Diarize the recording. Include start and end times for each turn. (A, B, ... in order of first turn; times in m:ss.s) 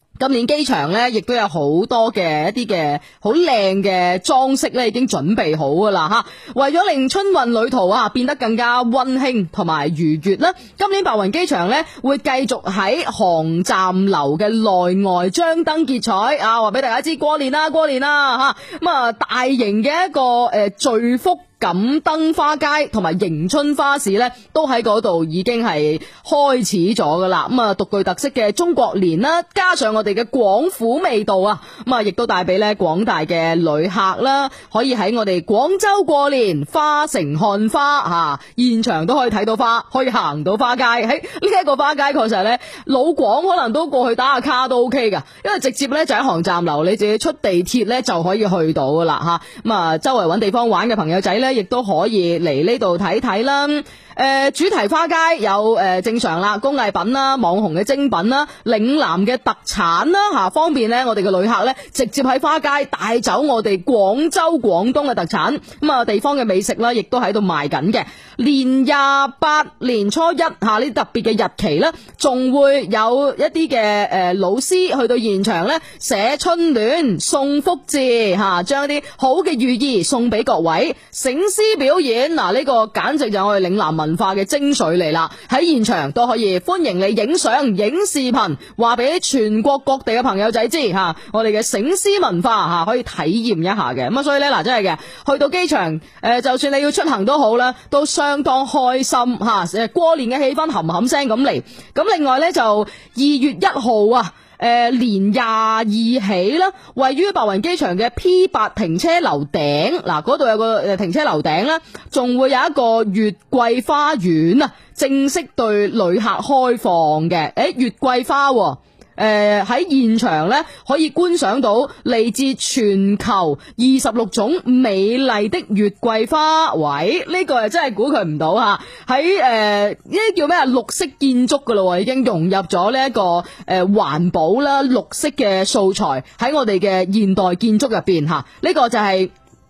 0:00.2-2:19.3 A